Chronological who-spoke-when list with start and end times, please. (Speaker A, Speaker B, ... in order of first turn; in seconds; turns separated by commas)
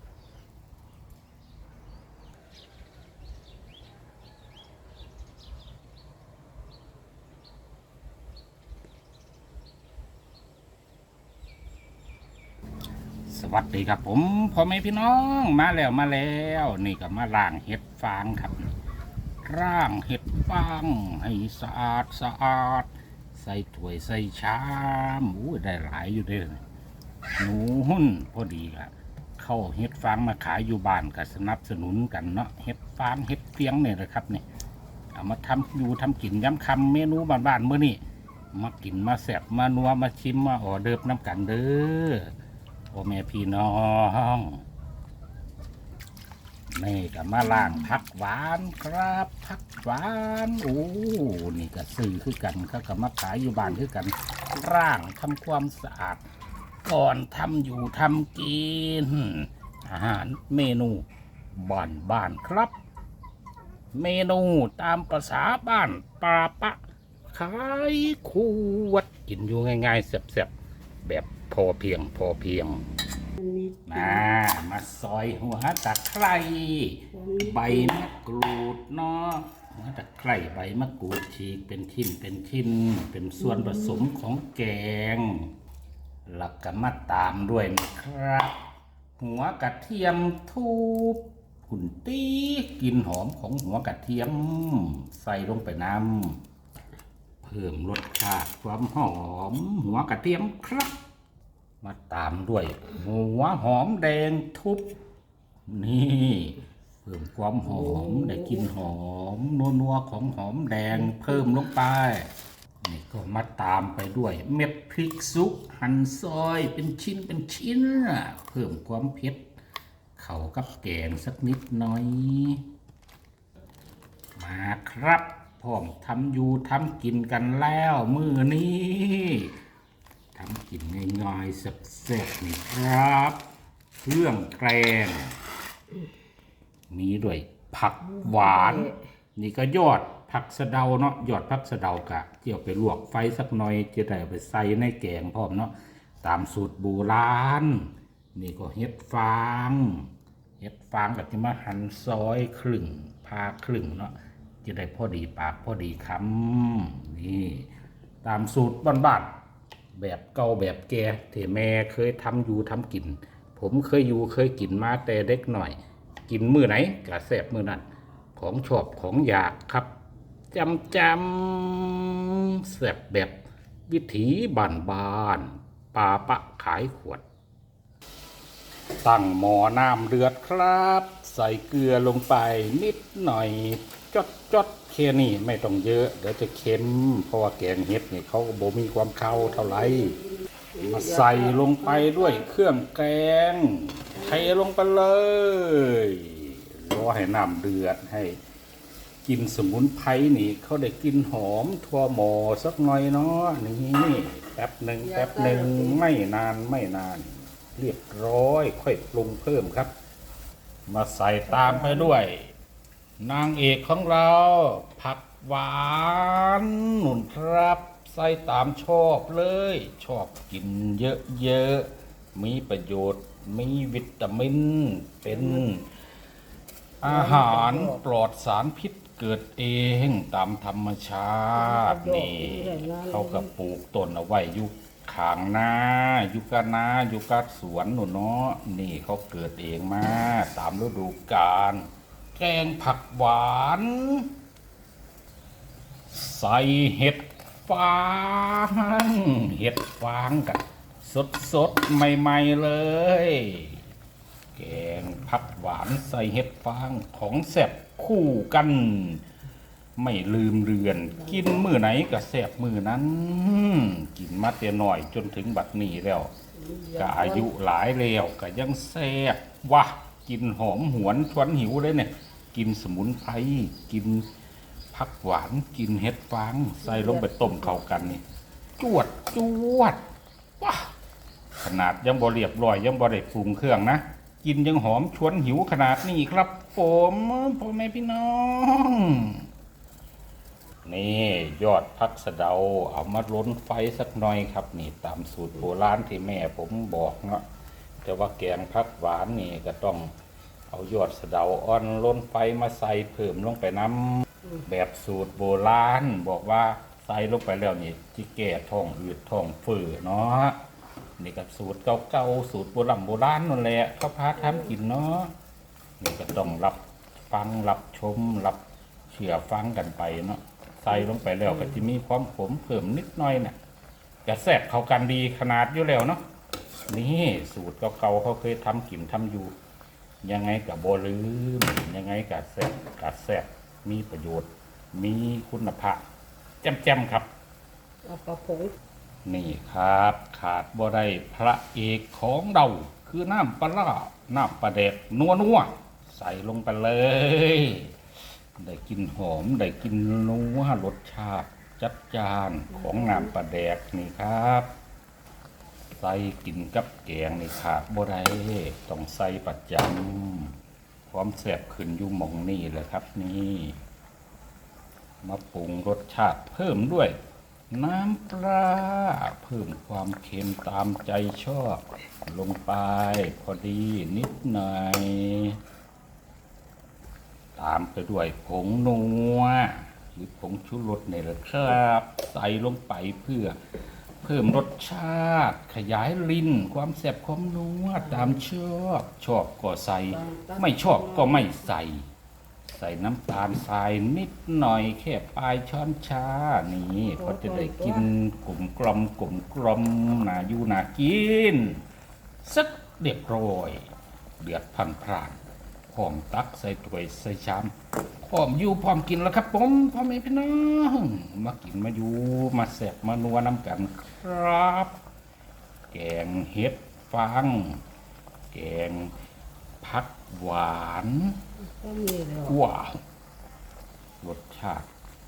Speaker A: 13.3-18.7, Speaker A: 19.4-26.6, Speaker A: 27.3-34.5, Speaker A: 35.1-38.0, Speaker A: 38.5-42.3, Speaker A: 42.9-44.6, Speaker A: 46.7-56.2, Speaker A: 56.9-62.8, Speaker A: 64.0-70.5, Speaker A: 71.0-72.8, Speaker B: 73.4-74.2, Speaker A: 73.9-85.5, Speaker B: 77.1-78.0, Speaker A: 86.3-88.6, Speaker A: 89.2-96.4, Speaker A: 97.4-101.0, Speaker A: 101.8-104.9, Speaker A: 105.7-112.3, Speaker B: 107.8-108.7, Speaker A: 112.8-119.5, Speaker A: 120.2-122.6, Speaker A: 124.4-129.5, Speaker A: 130.3-133.4, Speaker A: 134.0-135.4, Speaker A: 136.9-157.7, Speaker B: 138.2-139.0, Speaker A: 158.2-159.3, Speaker A: 159.9-165.8, Speaker A: 166.3-169.9, Speaker A: 170.5-177.2, Speaker A: 179.0-190.2, Speaker B: 190.8-192.4, Speaker A: 190.8-198.4, Speaker A: 199.2-209.9, Speaker B: 205.0-206.1, Speaker A: 210.9-212.5, Speaker B: 211.5-212.1, Speaker A: 213.2-225.9, Speaker B: 225.3-225.6, Speaker A: 227.0-244.3, Speaker B: 227.0-228.0, Speaker B: 231.6-233.5, Speaker A: 246.1-253.8, Speaker A: 254.6-259.2, Speaker A: 260.0-266.3, Speaker B: 266.6-267.5, Speaker A: 267.0-274.3, Speaker A: 274.9-278.2, Speaker B: 276.8-277.9, Speaker A: 278.8-280.0, Speaker A: 280.6-280.9, Speaker A: 281.6-289.4, Speaker A: 290.9-297.4, Speaker A: 298.0-300.1, Speaker A: 300.7-310.6, Speaker A: 311.2-315.3, Speaker A: 316.0-316.8, Speaker A: 317.3-323.6, Speaker A: 324.2-326.2, Speaker A: 326.9-329.5, Speaker A: 330.2-336.0, Speaker A: 336.6-337.3, Speaker B: 338.0-338.8, Speaker A: 339.3-347.9, Speaker A: 348.6-354.7, Speaker B: 352.7-353.3, Speaker A: 356.0-360.6, Speaker A: 361.1-363.8, Speaker A: 365.2-367.1, Speaker A: 367.7-375.6, Speaker A: 377.6-383.6, Speaker A: 384.2-392.1, Speaker B: 390.1-391.5, Speaker A: 392.7-401.8, Speaker B: 397.2-398.1, Speaker A: 402.4-403.9, Speaker A: 404.4-414.9, Speaker A: 415.9-417.8, Speaker A: 418.5-419.1, Speaker A: 419.8-421.4, Speaker B: 421.7-422.6, Speaker A: 422.4-423.0, Speaker A: 424.2-424.9